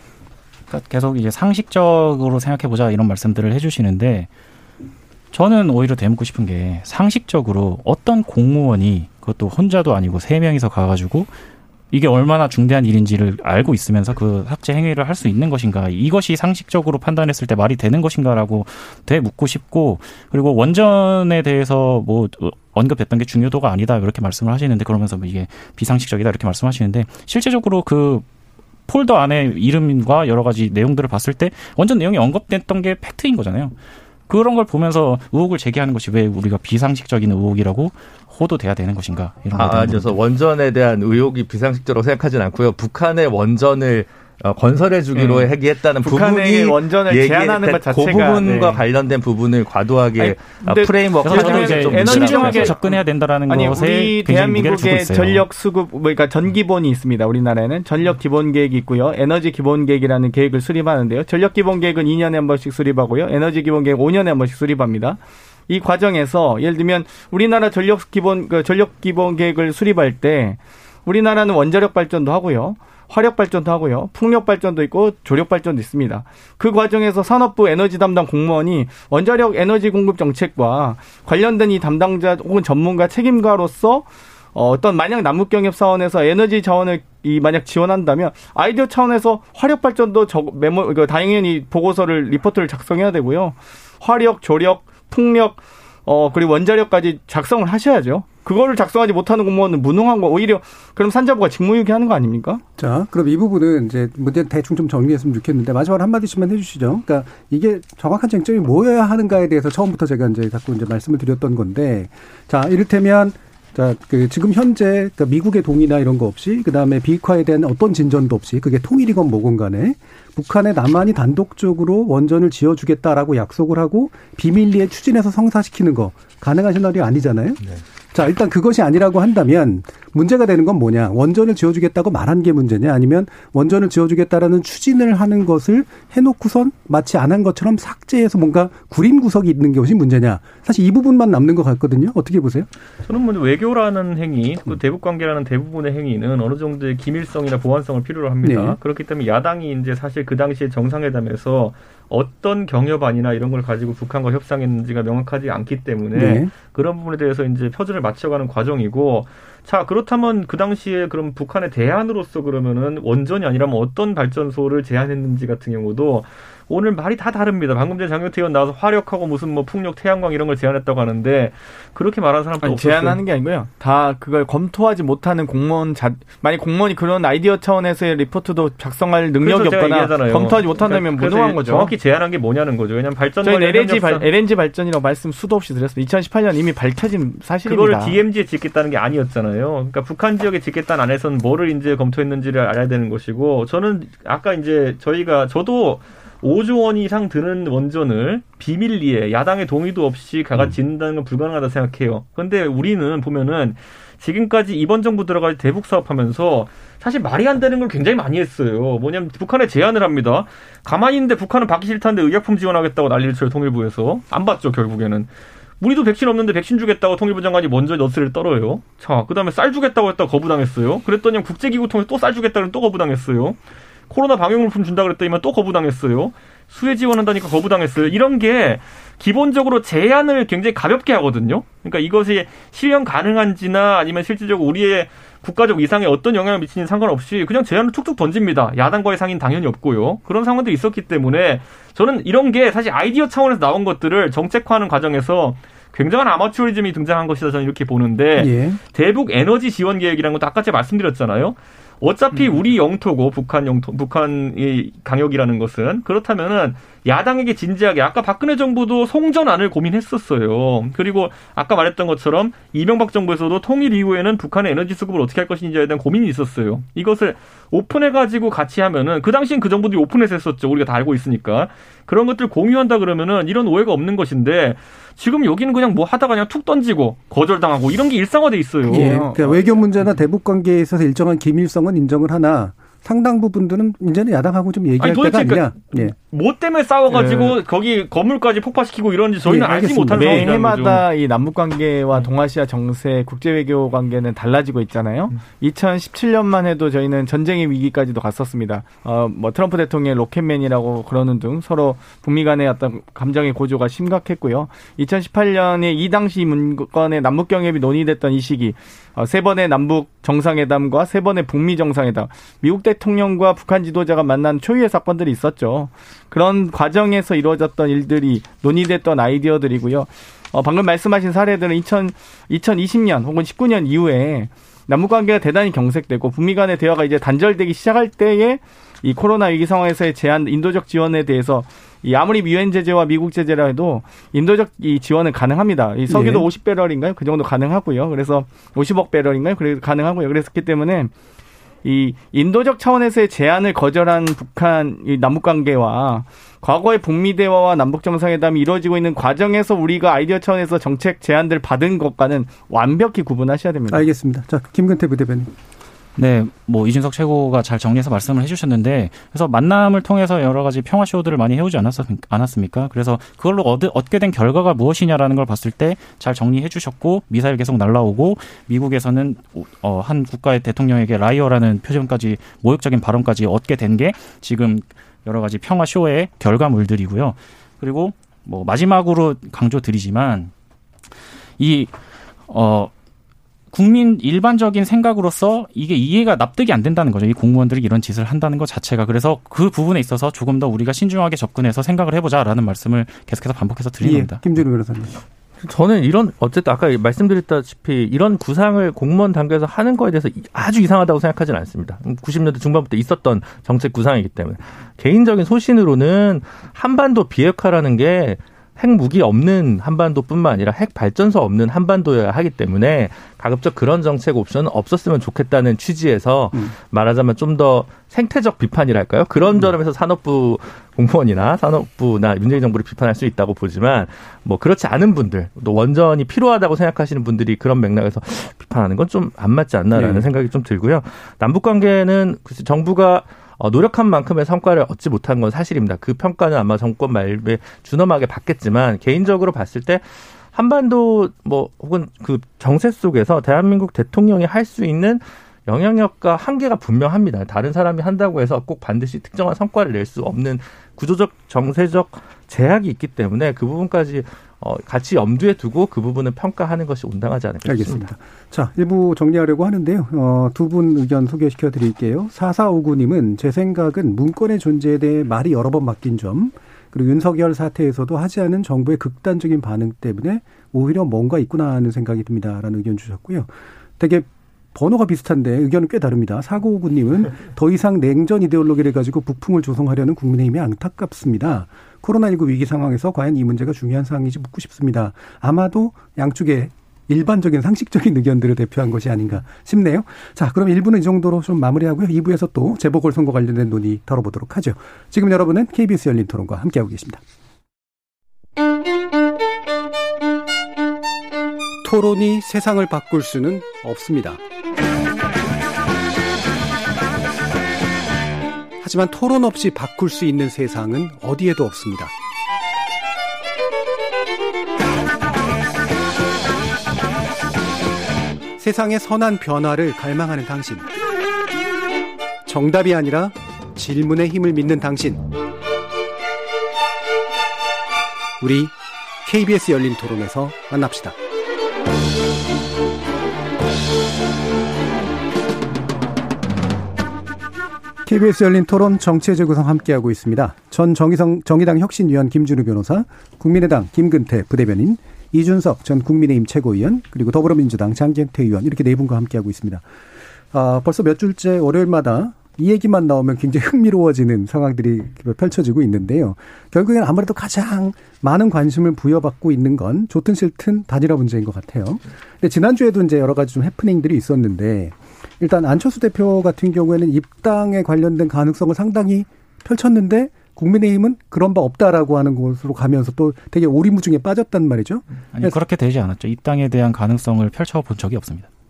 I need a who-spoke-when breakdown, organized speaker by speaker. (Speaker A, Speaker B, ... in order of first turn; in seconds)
Speaker A: 0.7-4.3, 5.3-11.3, 11.9-28.2, 28.9-33.7, 34.3-40.1, 51.2-55.5, 356.2-380.5, 381.6-381.9, 382.5-382.9, 383.7-394.6, 575.3-578.5
Speaker B: 39.5-52.8, 395.6-458.1
Speaker C: 45.1-48.8, 50.2-102.6, 172.6-181.9, 183.4-188.2, 278.9-279.6, 287.1-287.6, 290.1-341.1, 341.8-354.1
Speaker D: 102.8-127.6, 128.1-142.7, 148.4-148.8, 156.1-156.5, 248.4-248.8, 278.9-286.1, 289.4-290.6, 336.1-336.5, 353.9-355.5, 394.0-395.2, 429.9-430.2, 457.6-497.2, 501.8-504.4, 508.8-512.1, 518.6-520.9, 522.5-525.2, 528.4-531.1, 538.1-549.9, 550.5-575.6
Speaker E: 143.1-173.2, 179.4-184.2, 187.7-215.3, 215.8-223.6, 224.1-279.3, 285.0-291.1